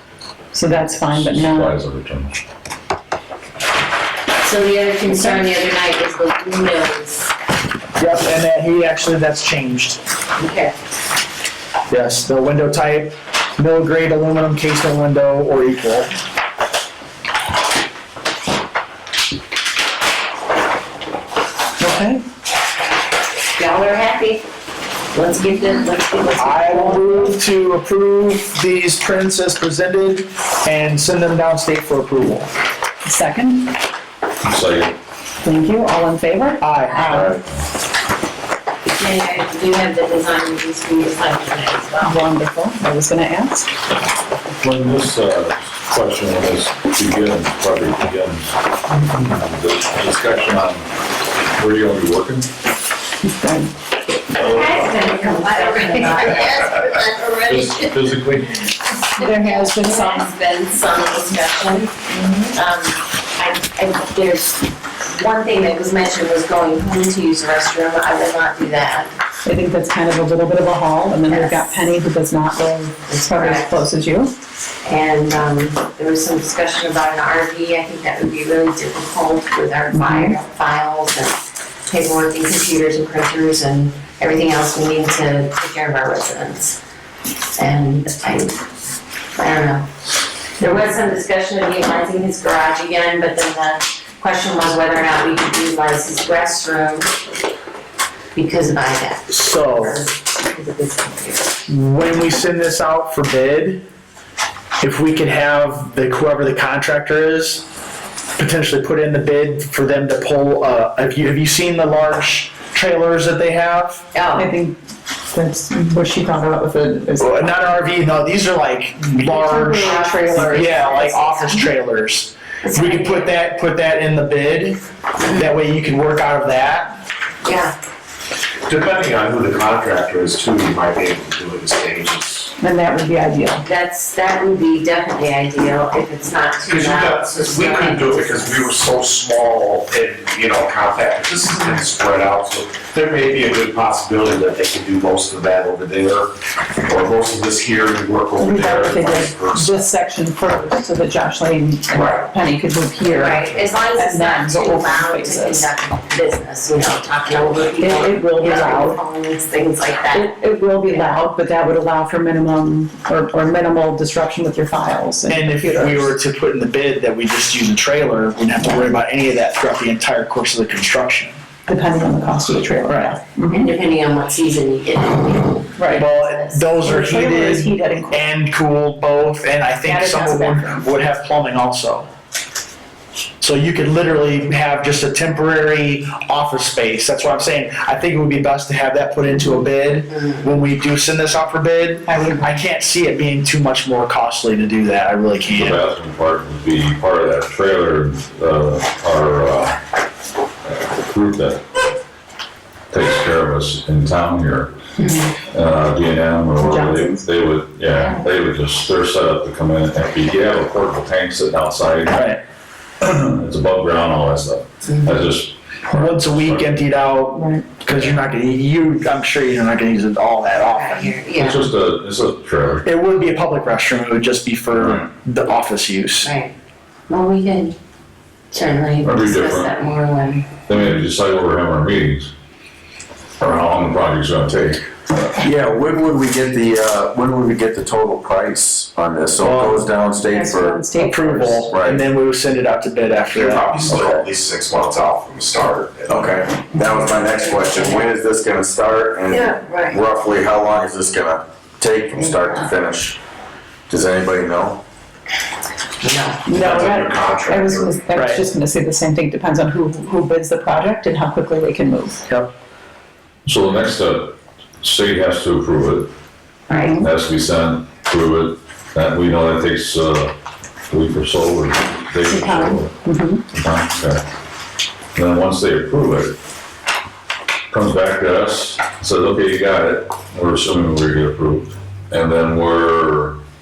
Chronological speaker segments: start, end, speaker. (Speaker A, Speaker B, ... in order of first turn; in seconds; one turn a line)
Speaker A: 0.5-1.8
Speaker B: 1.1-2.4
Speaker C: 4.4-7.3
Speaker D: 8.0-10.0
Speaker C: 10.4-10.7
Speaker D: 11.9-16.1
Speaker A: 21.8-22.2
Speaker C: 23.6-24.4
Speaker C: 25.1-27.4
Speaker D: 26.4-32.5
Speaker A: 33.0-33.7
Speaker B: 34.4-35.0
Speaker A: 35.4-37.4
Speaker D: 36.6-37.4
Speaker C: 39.0-42.2
Speaker A: 42.0-43.7
Speaker B: 44.6-50.9
Speaker B: 51.4-52.5
Speaker A: 53.2-53.7
Speaker C: 54.3-58.2
Speaker A: 54.9-55.3
Speaker B: 57.5-58.7
Speaker A: 59.1-60.3
Speaker C: 59.2-61.9
Speaker A: 62.1-62.5
Speaker C: 62.5-69.1
Speaker A: 69.5-74.3
Speaker C: 71.3-71.8
Speaker C: 73.1-73.8
Speaker C: 74.8-86.8
Speaker A: 79.9-80.3
Speaker C: 87.6-88.6
Speaker C: 89.3-89.9
Speaker C: 90.6-97.1
Speaker C: 98.3-101.5
Speaker D: 99.3-100.0
Speaker D: 101.7-103.8
Speaker D: 104.8-107.6
Speaker D: 108.4-114.0
Speaker C: 114.1-114.5
Speaker A: 114.4-114.8
Speaker A: 115.3-117.4
Speaker D: 117.2-127.0
Speaker A: 119.3-121.0
Speaker C: 119.8-121.7
Speaker C: 122.6-123.3
Speaker C: 125.2-125.5
Speaker C: 127.4-127.8
Speaker E: 128.7-132.5
Speaker A: 132.6-133.7
Speaker C: 133.6-138.7
Speaker E: 136.7-146.3
Speaker E: 146.8-149.9
Speaker A: 148.4-155.7
Speaker E: 151.9-152.3
Speaker C: 153.0-160.3
Speaker A: 157.8-159.0
Speaker A: 160.1-166.1
Speaker D: 165.3-171.4
Speaker A: 171.7-173.7
Speaker D: 172.9-173.2
Speaker C: 173.5-176.7
Speaker A: 175.8-176.1
Speaker D: 175.9-182.1
Speaker A: 176.8-178.2
Speaker A: 179.8-180.8
Speaker D: 183.4-195.8
Speaker A: 192.1-192.7
Speaker B: 195.5-199.8
Speaker B: 200.7-201.6
Speaker B: 202.9-204.7
Speaker C: 205.0-205.3
Speaker B: 205.5-212.3
Speaker A: 206.6-207.3
Speaker D: 212.1-212.4
Speaker B: 213.0-217.0
Speaker D: 215.9-221.2
Speaker B: 217.9-218.2
Speaker C: 220.7-221.7
Speaker B: 221.3-222.9
Speaker D: 222.8-226.3
Speaker B: 224.8-225.0
Speaker C: 226.2-226.5
Speaker C: 227.1-227.8
Speaker C: 228.5-230.5
Speaker B: 229.0-229.7
Speaker B: 230.7-232.3
Speaker B: 233.4-234.8
Speaker F: 235.4-240.9
Speaker D: 239.4-239.8
Speaker A: 240.2-241.7
Speaker D: 241.0-244.2
Speaker F: 241.7-242.0
Speaker E: 243.3-246.5
Speaker F: 246.1-253.2
Speaker C: 246.7-248.1
Speaker C: 249.3-250.0
Speaker C: 252.2-252.7
Speaker F: 253.9-254.8
Speaker C: 256.0-256.4
Speaker E: 256.5-258.0
Speaker A: 256.5-262.2
Speaker D: 258.1-258.4
Speaker B: 263.5-266.1
Speaker C: 266.7-267.0
Speaker A: 266.7-267.1
Speaker B: 267.0-270.3
Speaker B: 270.9-272.9
Speaker A: 272.3-273.4
Speaker B: 273.5-274.2
Speaker B: 275.1-276.4
Speaker B: 277.7-283.4